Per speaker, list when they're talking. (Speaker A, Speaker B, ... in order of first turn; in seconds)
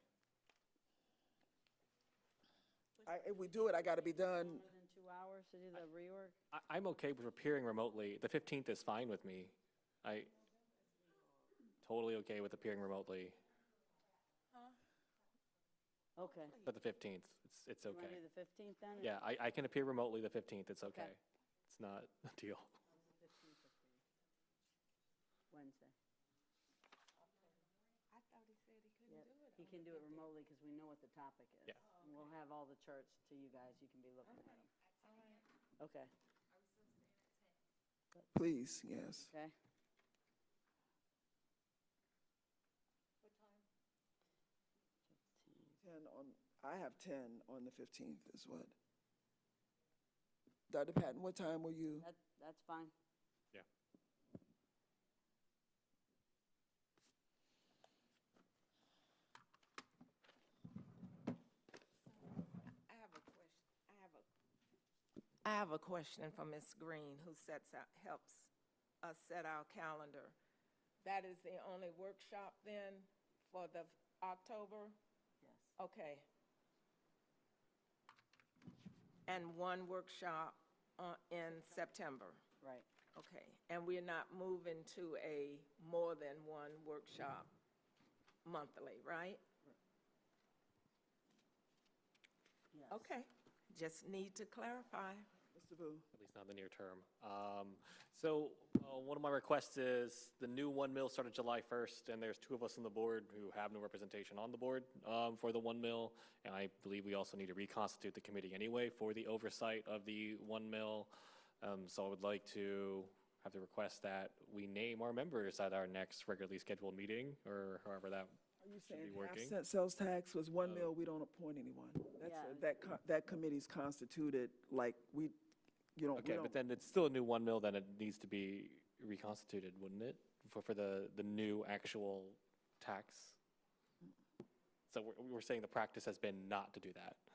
Speaker A: 3.0-4.1, 28.1-30.3, 34.2-35.5, 62.9-64.3, 65.5-68.5, 69.0-70.3, 71.0-75.0, 75.8-76.3, 79.3-82.5, 83.1-87.5, 88.4-89.4, 92.9-95.3
Speaker B: 3.0-4.7, 38.3-39.3, 45.8-48.7, 50.7-52.1, 95.5-96.1, 118.6-125.4, 126.0-126.6
Speaker C: 4.1-6.3, 16.1-16.7, 17.9-19.1, 20.9-21.1, 22.9-24.0, 25.5-25.9, 28.9-36.1, 39.3-39.5, 45.1-45.8, 52.0-52.9, 65.4-66.3, 67.1-68.5, 69.0-70.2, 71.0-71.3, 74.3-74.8, 75.4-75.9, 79.3-79.7, 81.4-82.9, 88.5-89.1, 92.7-93.2, 94.3-95.0, 122.2-122.6
Speaker D: 6.5-10.3, 11.8-13.4, 16.6-18.2, 19.0-22.7, 96.1-119.6, 120.6-120.9, 126.2-133.4, 134.9-137.2